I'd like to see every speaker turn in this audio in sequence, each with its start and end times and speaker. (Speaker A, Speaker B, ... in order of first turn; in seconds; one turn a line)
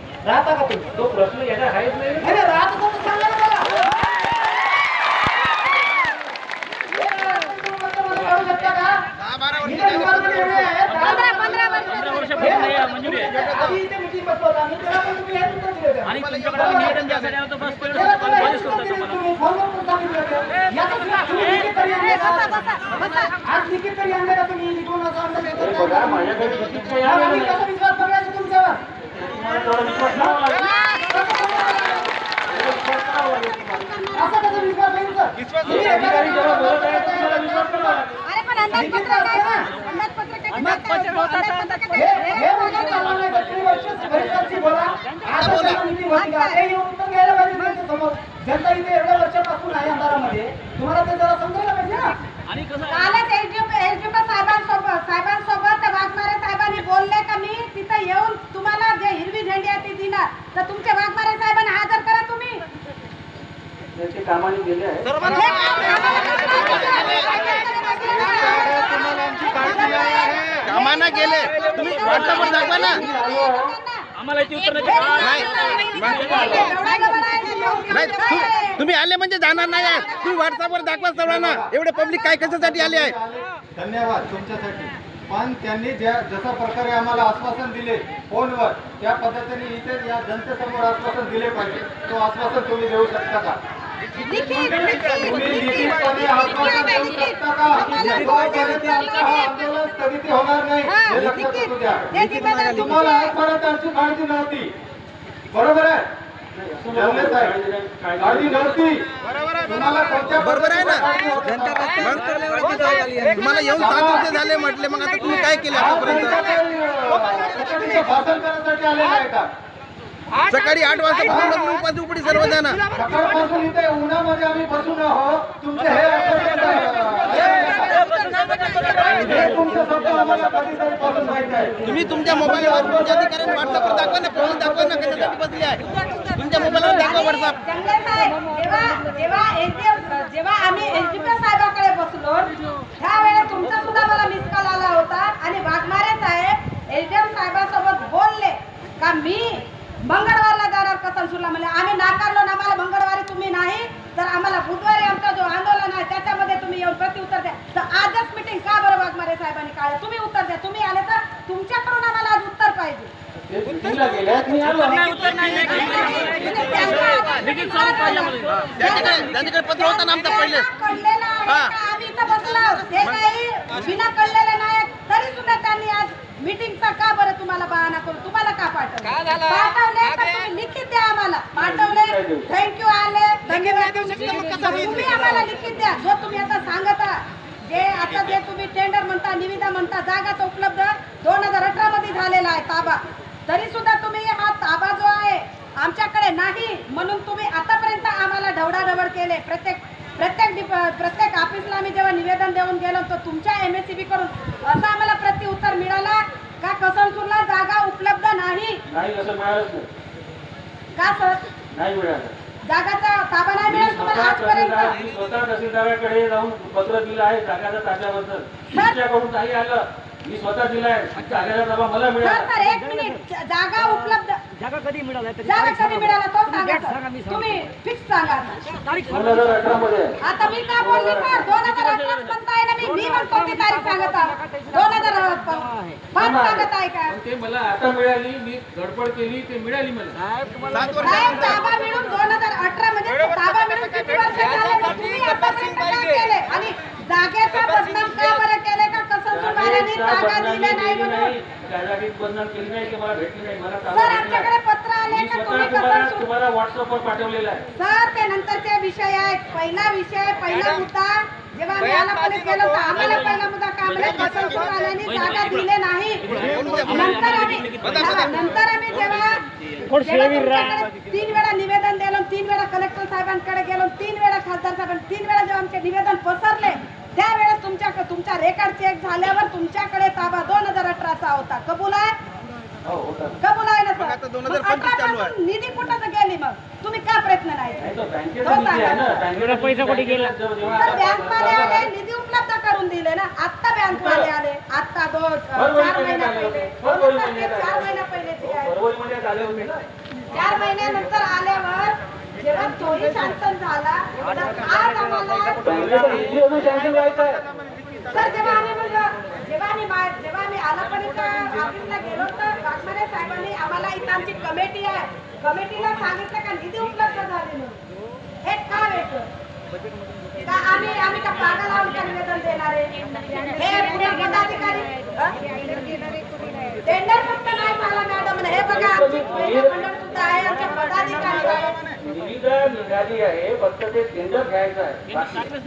Speaker A: 0.2-0.9
Speaker B: 0.9-2.4
Speaker A: 2.2-4.0
Speaker A: 6.8-11.4
Speaker C: 9.2-10.7
Speaker B: 10.9-13.4
Speaker D: 11.0-12.7
Speaker A: 12.4-17.0
Speaker C: 13.4-13.7
Speaker B: 16.1-19.2
Speaker C: 16.2-17.3
Speaker A: 17.8-28.8
Speaker D: 22.0-23.3
Speaker B: 25.6-27.6
Speaker B: 29.1-30.8
Speaker D: 30.6-34.7
Speaker A: 31.1-32.1
Speaker B: 32.5-34.0
Speaker A: 34.1-38.0
Speaker B: 35.6-38.2
Speaker D: 38.2-43.3
Speaker A: 38.7-39.7
Speaker A: 41.9-52.2
Speaker C: 45.4-45.8
Speaker D: 46.1-46.6
Speaker B: 52.6-52.9
Speaker D: 52.9-62.6
Speaker B: 64.0-65.6
Speaker D: 65.3-78.9
Speaker E: 68.3-70.6
Speaker C: 70.6-73.0
Speaker B: 71.7-76.8
Speaker C: 75.2-76.4
Speaker A: 76.2-78.0
Speaker C: 77.9-83.1
Speaker D: 79.5-80.7
Speaker E: 81.2-81.8
Speaker E: 82.3-93.6
Speaker D: 94.2-99.5
Speaker E: 95.2-104.7
Speaker D: 100.8-103.3
Speaker E: 105.5-106.1
Speaker B: 106.5-108.8
Speaker E: 107.0-107.5
Speaker E: 108.2-109.1
Speaker E: 109.6-112.2
Speaker C: 110.5-111.0
Speaker C: 111.5-116.4
Speaker E: 113.6-114.4
Speaker E: 115.7-119.5
Speaker C: 120.4-122.9
Speaker E: 121.2-121.7
Speaker E: 122.9-128.0
Speaker A: 127.3-128.2
Speaker D: 128.2-129.1
Speaker E: 129.2-135.4
Speaker C: 131.8-137.6
Speaker A: 131.9-132.2
Speaker A: 136.6-136.9
Speaker D: 136.8-163.1
Speaker B: 163.5-169.0
Speaker D: 165.2-208.8
Speaker C: 168.5-170.6
Speaker B: 181.6-182.5
Speaker A: 183.5-185.4
Speaker B: 208.9-209.9
Speaker D: 211.0-211.5
Speaker B: 211.7-212.3
Speaker D: 212.7-215.0
Speaker B: 213.6-222.5
Speaker D: 222.2-224.4
Speaker C: 224.7-225.3
Speaker D: 225.4-228.9
Speaker B: 229.1-232.3
Speaker D: 230.2-237.2
Speaker B: 236.2-240.2
Speaker C: 240.6-241.4
Speaker D: 241.0-251.3
Speaker B: 241.0-241.6
Speaker B: 249.3-254.5
Speaker D: 253.9-256.2
Speaker B: 255.1-257.6
Speaker D: 257.8-282.1
Speaker B: 265.1-265.6
Speaker B: 266.2-268.4
Speaker B: 282.8-283.4
Speaker D: 283.4-287.9
Speaker C: 284.0-285.3
Speaker B: 287.8-291.9
Speaker D: 288.4-289.2
Speaker D: 290.8-298.7
Speaker B: 293.9-294.3
Speaker B: 295.6-297.9
Speaker B: 298.4-299.9
Speaker D: 300.3-306.1
Speaker B: 305.6-307.4
Speaker D: 308.1-317.8
Speaker D: 318.4-319.3
Speaker D: 320.4-325.8
Speaker D: 326.8-331.7
Speaker B: 328.6-329.9
Speaker B: 331.5-335.6